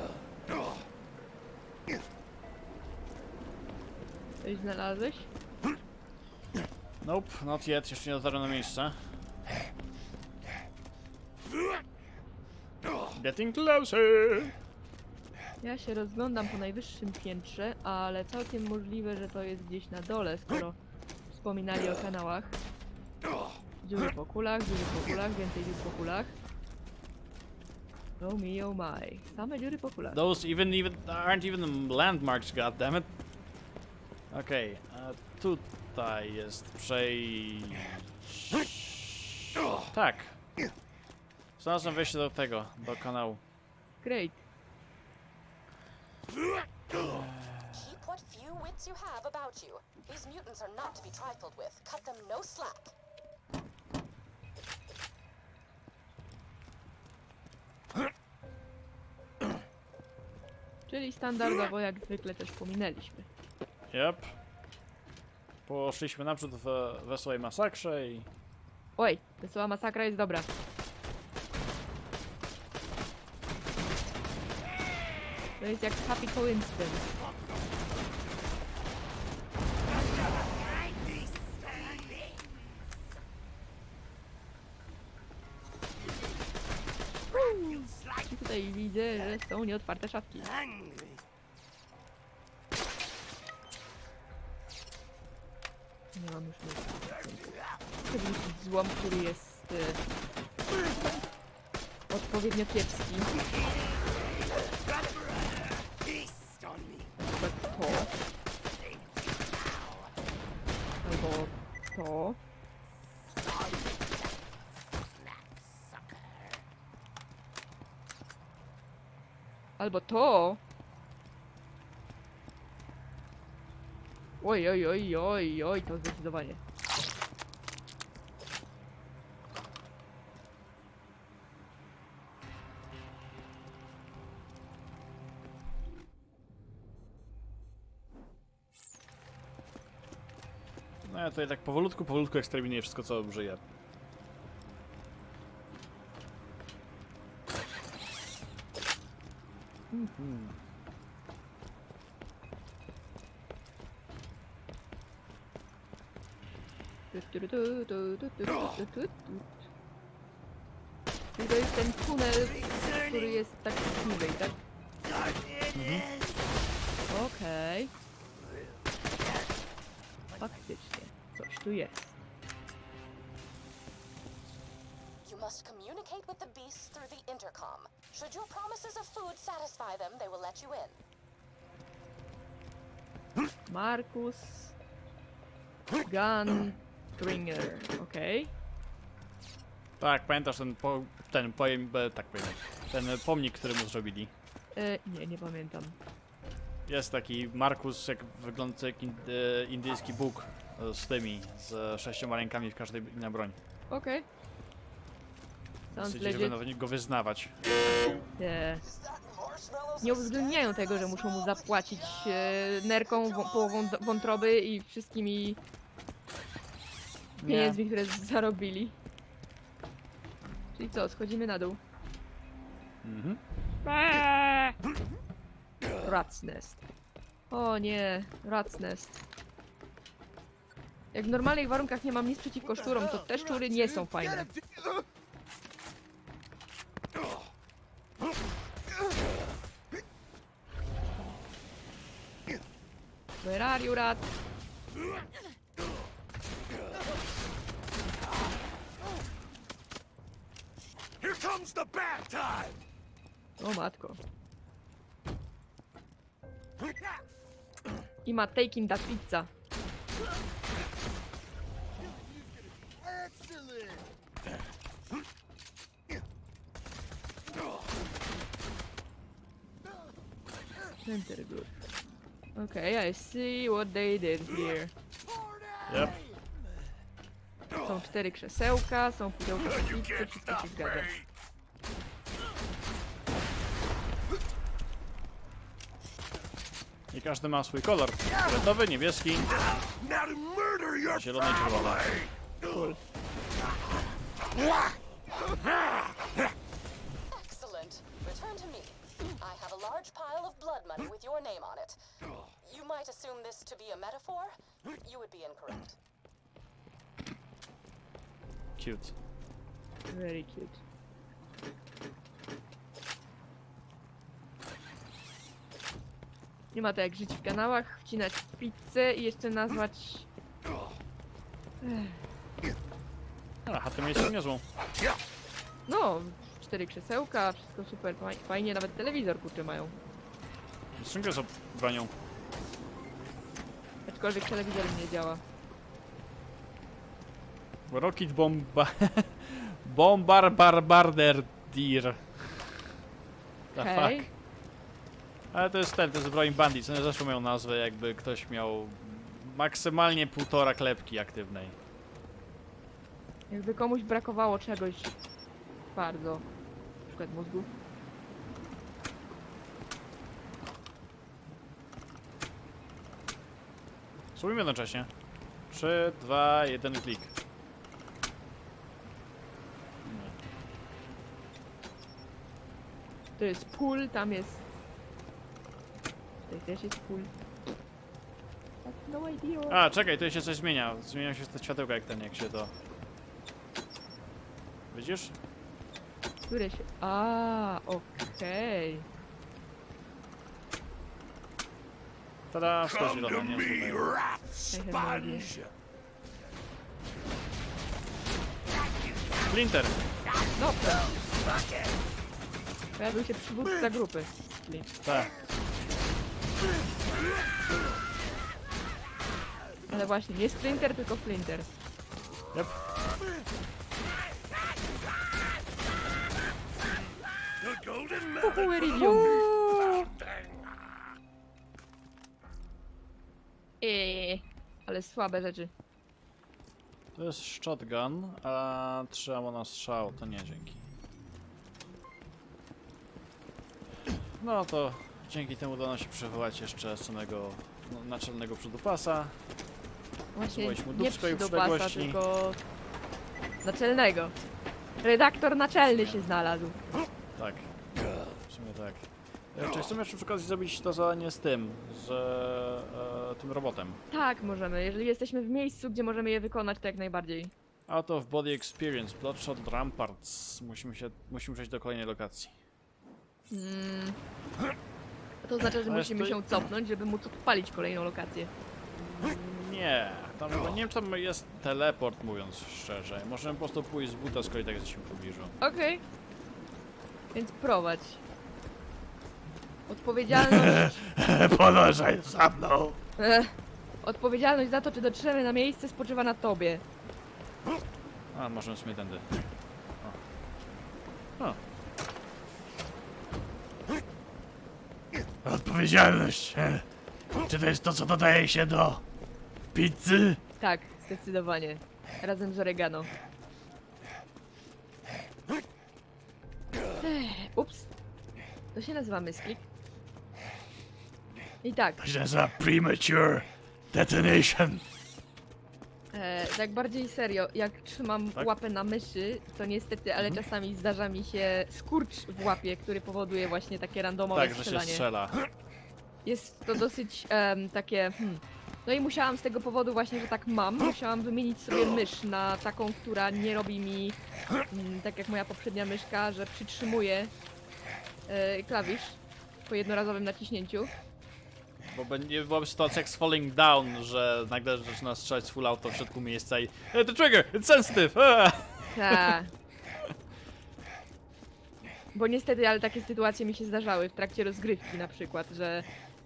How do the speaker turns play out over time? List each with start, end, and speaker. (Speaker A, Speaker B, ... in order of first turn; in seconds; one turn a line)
Speaker A: 4.4-5.3
Speaker B: 7.0-9.0
Speaker B: 13.1-14.6
Speaker A: 15.6-20.8
Speaker A: 21.3-22.6
Speaker A: 23.8-26.3
Speaker A: 28.2-30.2
Speaker B: 30.1-33.1
Speaker B: 34.3-40.4
Speaker B: 41.6-43.4
Speaker A: 44.0-44.4
Speaker B: 46.9-48.0
Speaker C: 47.7-52.9
Speaker A: 60.9-63.3
Speaker B: 63.9-64.3
Speaker B: 65.7-68.3
Speaker A: 69.0-70.5
Speaker A: 75.6-77.1
Speaker A: 87.3-90.5
Speaker A: 96.1-100.0
Speaker A: 102.1-103.3
Speaker A: 107.3-108.1
Speaker A: 111.0-112.4
Speaker A: 119.8-120.6
Speaker A: 124.4-126.6
Speaker B: 141.0-143.6
Speaker B: 150.1-150.5
Speaker A: 157.1-159.7
Speaker A: 161.3-164.6
Speaker B: 165.7-166.1
Speaker A: 167.1-167.9
Speaker A: 170.4-172.2
Speaker C: 175.2-181.0
Speaker A: 183.7-184.7
Speaker A: 186.0-188.5
Speaker B: 190.0-194.3
Speaker A: 194.7-196.0
Speaker B: 196.9-203.6
Speaker A: 203.9-204.2
Speaker B: 205.9-207.6
Speaker A: 205.9-206.6
Speaker A: 208.4-208.8
Speaker C: 209.3-209.7
Speaker A: 210.0-215.6
Speaker B: 217.4-217.8
Speaker A: 217.4-219.0
Speaker A: 220.8-221.8
Speaker B: 223.0-223.4
Speaker A: 223.8-224.8
Speaker A: 226.0-226.8
Speaker A: 227.5-229.2
Speaker A: 231.1-234.5
Speaker A: 243.4-244.3
Speaker D: 251.2-252.8
Speaker A: 253.6-254.2
Speaker A: 258.2-259.5
Speaker A: 271.0-271.7
Speaker A: 272.6-274.9
Speaker B: 275.9-276.2
Speaker A: 277.8-281.2
Speaker B: 287.1-289.6
Speaker D: 289.9-292.0
Speaker B: 291.1-292.2
Speaker A: 292.6-293.0
Speaker C: 297.3-302.0
Speaker C: 302.6-306.0
Speaker B: 308.8-309.1
Speaker A: 310.1-310.8
Speaker A: 316.7-320.3
Speaker A: 321.8-322.2
Speaker B: 323.6-324.6
Speaker A: 325.9-329.9
Speaker B: 331.0-332.1
Speaker A: 334.1-335.4
Speaker B: 337.9-342.9
Speaker B: 343.7-344.3
Speaker A: 343.8-344.3
Speaker B: 345.5-351.8
Speaker A: 353.5-355.2
Speaker A: 355.9-356.5
Speaker A: 357.1-357.7
Speaker B: 364.4-365.1
Speaker B: 365.7-367.3
Speaker B: 370.0-370.4
Speaker A: 373.4-374.7
Speaker A: 376.5-377.3
Speaker A: 378.8-379.8
Speaker B: 379.7-382.7
Speaker B: 384.9-385.4
Speaker A: 386.5-389.1
Speaker B: 392.5-394.1
Speaker D: 392.9-395.7
Speaker A: 394.7-395.5
Speaker B: 399.4-400.0
Speaker A: 400.6-401.1
Speaker A: 403.0-404.9
Speaker B: 405.0-405.3
Speaker A: 409.9-411.7
Speaker D: 417.6-420.4
Speaker A: 418.4-419.4
Speaker A: 423.8-425.7
Speaker B: 427.1-430.8
Speaker B: 434.4-439.4
Speaker A: 440.3-442.6
Speaker B: 440.5-442.2
Speaker A: 443.6-444.4
Speaker A: 445.0-446.8
Speaker B: 445.9-446.2
Speaker B: 447.4-447.7
Speaker B: 448.5-454.0
Speaker A: 454.1-457.5
Speaker B: 457.9-462.6
Speaker A: 463.5-464.2
Speaker A: 465.4-468.5
Speaker B: 465.9-466.4
Speaker B: 468.9-475.6
Speaker A: 475.6-476.0
Speaker A: 477.3-478.2
Speaker A: 479.9-481.0
Speaker B: 480.3-483.0
Speaker A: 483.2-486.8
Speaker B: 488.3-489.3
Speaker B: 495.4-496.9
Speaker B: 497.5-499.0
Speaker B: 499.7-500.4
Speaker A: 500.6-503.1
Speaker A: 507.0-507.9
Speaker A: 508.7-509.6
Speaker A: 511.6-512.0
Speaker B: 512.0-514.8
Speaker A: 516.1-525.0
Speaker B: 524.3-525.4
Speaker A: 526.2-534.2
Speaker A: 534.7-537.3
Speaker A: 538.3-540.9
Speaker B: 541.8-549.4
Speaker A: 548.9-549.5
Speaker A: 552.1-555.9